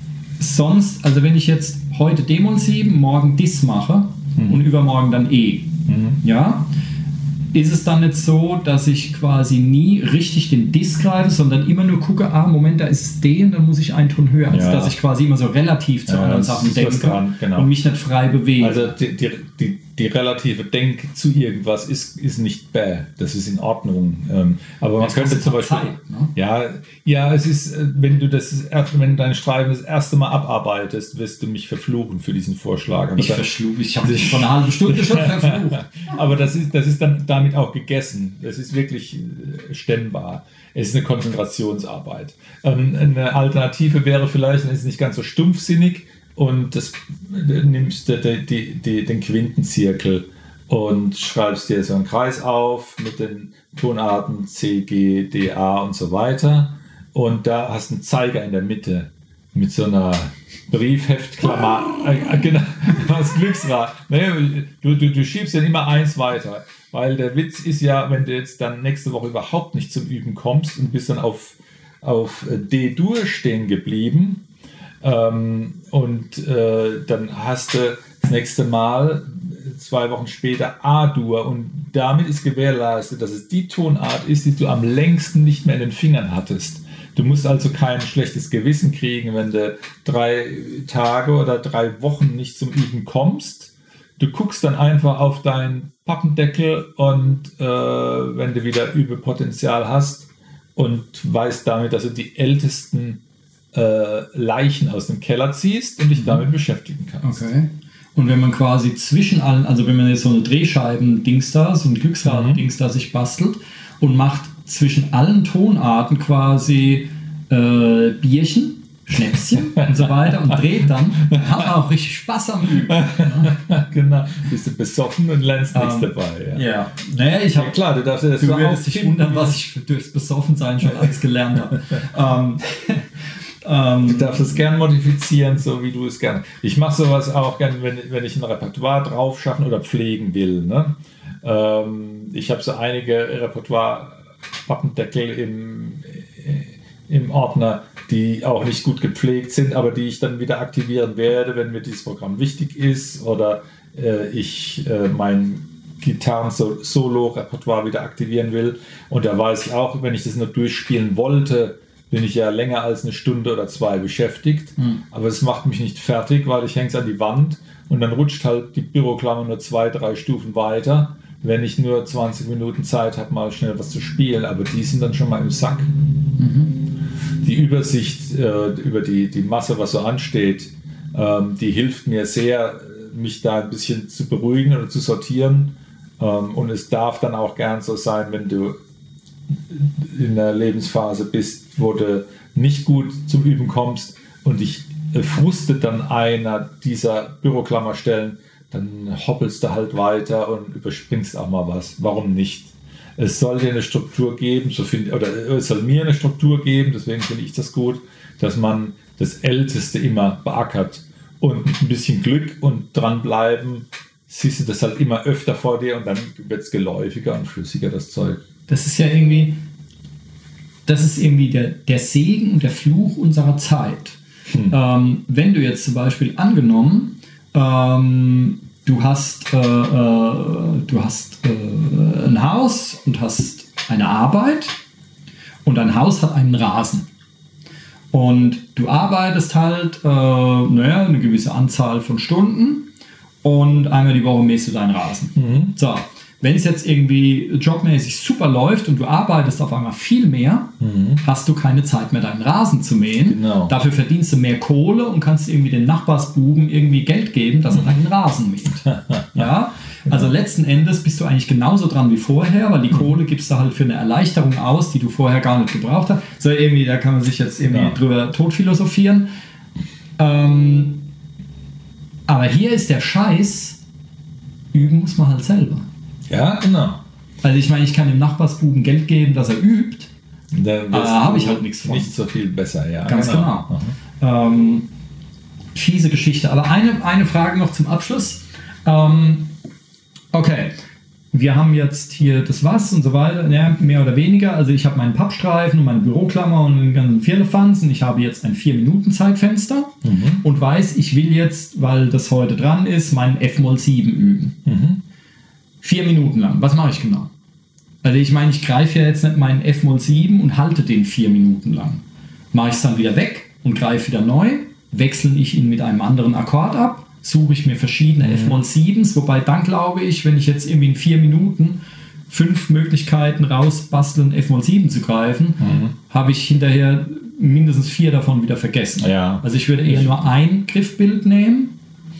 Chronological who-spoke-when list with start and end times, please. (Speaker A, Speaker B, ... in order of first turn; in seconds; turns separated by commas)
Speaker A: 0.4-6.7, Speaker B: 5.9-6.2, Speaker A: 7.5-18.9, Speaker B: 14.5-14.9, Speaker B: 16.1-17.7, Speaker B: 18.6-33.5, Speaker A: 25.0-26.3, Speaker A: 33.1-35.8, Speaker B: 34.0-74.4, Speaker B: 75.0-103.2, Speaker B: 103.7-107.5, Speaker A: 106.1-106.5, Speaker A: 107.2-123.5, Speaker B: 112.2-112.6, Speaker B: 122.9-126.7, Speaker A: 125.7-127.8, Speaker B: 127.5-129.6, Speaker A: 128.4-133.1, Speaker A: 133.6-134.4, Speaker B: 134.0-175.9, Speaker A: 164.8-165.0, Speaker A: 176.4-176.8, Speaker B: 177.4-188.8, Speaker B: 189.7-218.4, Speaker A: 218.7-219.6, Speaker A: 220.8-224.2, Speaker A: 224.7-234.8, Speaker A: 235.6-237.1, Speaker A: 238.1-242.9, Speaker A: 243.4-269.3, Speaker B: 245.3-245.7, Speaker B: 250.8-251.2, Speaker B: 253.2-253.7, Speaker B: 258.9-259.5, Speaker B: 267.7-267.9, Speaker A: 270.2-271.1, Speaker A: 272.3-273.8, Speaker A: 274.7-275.9, Speaker B: 276.3-277.0, Speaker A: 277.4-280.1, Speaker B: 280.5-283.9, Speaker A: 280.9-282.1, Speaker A: 283.1-284.9, Speaker A: 285.7-289.5, Speaker A: 290.3-290.8, Speaker A: 291.3-304.6, Speaker B: 300.0-300.4, Speaker B: 304.6-305.0, Speaker A: 305.8-307.3, Speaker A: 308.0-312.0, Speaker A: 312.5-331.8, Speaker B: 318.2-318.6, Speaker B: 325.6-325.9, Speaker B: 329.0-330.3